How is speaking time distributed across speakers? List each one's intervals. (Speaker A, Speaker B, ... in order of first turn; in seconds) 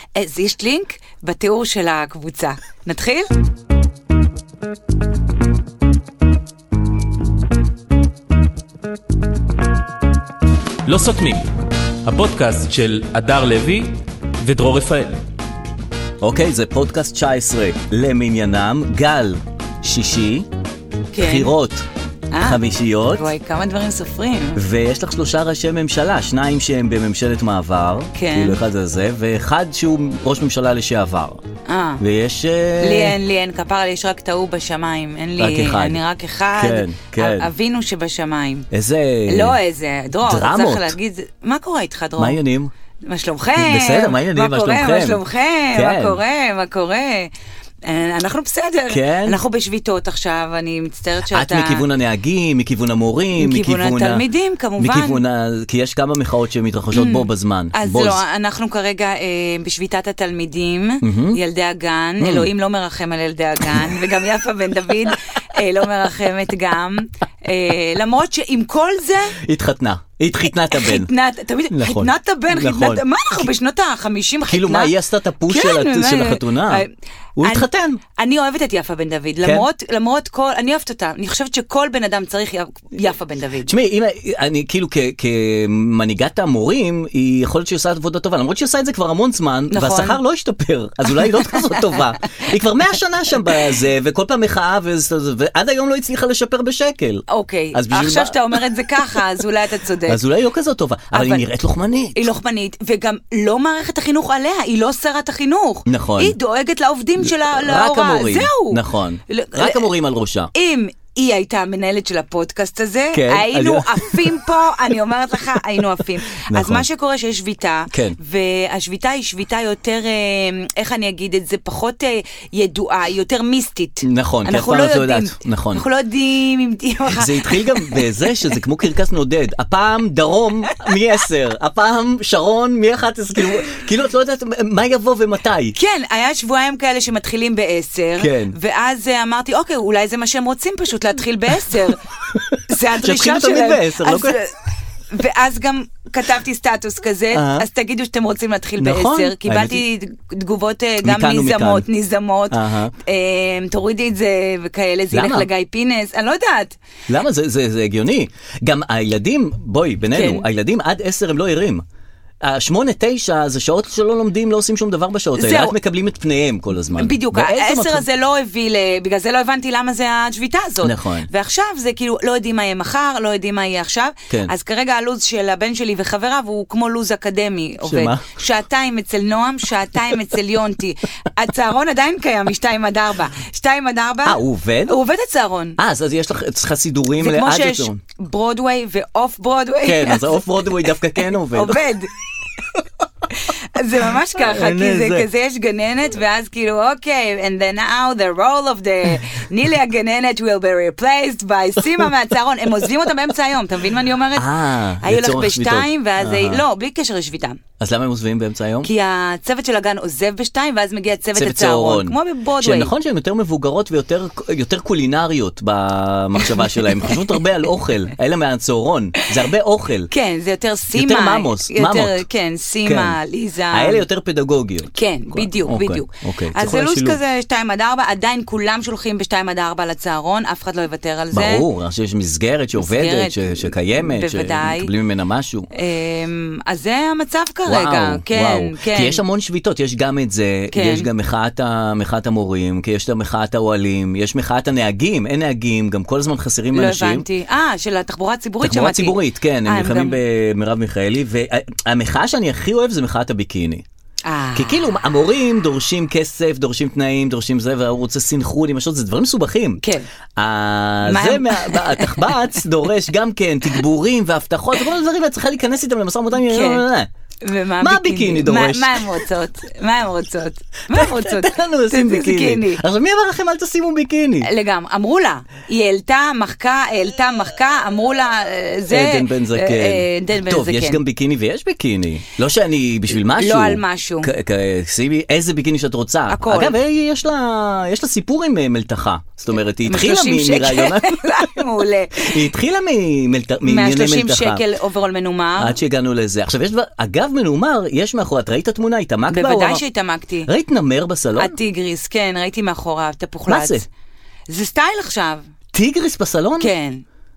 Speaker A: 0.1-3.3, 21.1-21.5, 22.3-22.6, 23.1-24.6, 28.1-28.6, 31.7-32.0, 32.8-38.7, 39.3-42.4, 43.0-47.3, 47.8-51.8, 53.4-55.2, 56.9-69.4, 70.7-74.9, 75.5-83.7, 89.7-90.2, 91.1-92.0, 97.3-100.2, 101.1-101.5, 102.2-109.9, 110.5-128.5, 135.8-142.0, 142.7-144.6, 145.1-156.8, 160.1-160.5, 165.3-165.8, 167.0-185.8, 187.2-190.4, 191.5-192.1, 193.3-207.6, 208.8-212.9, 216.4-217.3, 220.1-224.1, 224.9-231.7, 232.8-234.9, 235.7-239.2, 240.7-241.1, 246.7-250.2, 254.2-254.8, 259.8-260.1, 261.0-262.6, 266.4-266.9, 267.4-272.8, 274.4-281.0, 283.1-284.3, 286.3-286.8, 289.9-292.4, 293.6-295.8, 299.3-300.5, 301.4-303.9, 304.5-305.5, 306.6-307.1
Speaker B: 10.9-11.5, 12.0-15.2
Speaker C: 16.2-20.5, 21.2-21.9, 22.4-23.3, 24.6-31.4, 32.0-33.2, 35.4-36.0, 36.6-37.5, 38.7-39.6, 40.2-41.0, 42.2-42.7, 43.6-45.2, 45.7-46.2, 48.9-49.4, 51.3-54.2, 54.8-58.2, 61.0-61.4, 62.2-62.5, 69.4-71.1, 71.7-73.0, 74.5-76.8, 77.4-78.0, 79.4-79.7, 83.7-98.5, 100.1-102.3, 105.9-106.3, 107.2-110.5, 113.1-114.3, 116.4-116.9, 117.9-118.2, 124.0-125.8, 127.1-135.8, 138.2-138.6, 142.3-144.4, 147.3-147.7, 148.8-149.8, 151.0-151.9, 152.5-152.9, 155.1-155.5, 157.1-161.8, 162.4-168.0, 170.8-171.3, 174.3-174.5, 177.8-178.3, 184.2-185.0, 185.8-188.0, 189.8-191.8, 194.3-195.3, 204.3-206.6, 207.8-208.9, 211.3-220.1, 220.9-222.2, 222.8-223.2, 223.7-227.2, 231.3-235.7, 237.7-247.3, 248.6-253.8, 254.6-259.8, 260.4-267.1, 267.8-269.1, 270.9-274.5, 278.9-291.4, 292.2-294.6, 295.6-299.8, 300.5-301.6, 303.5-303.9, 305.7-306.7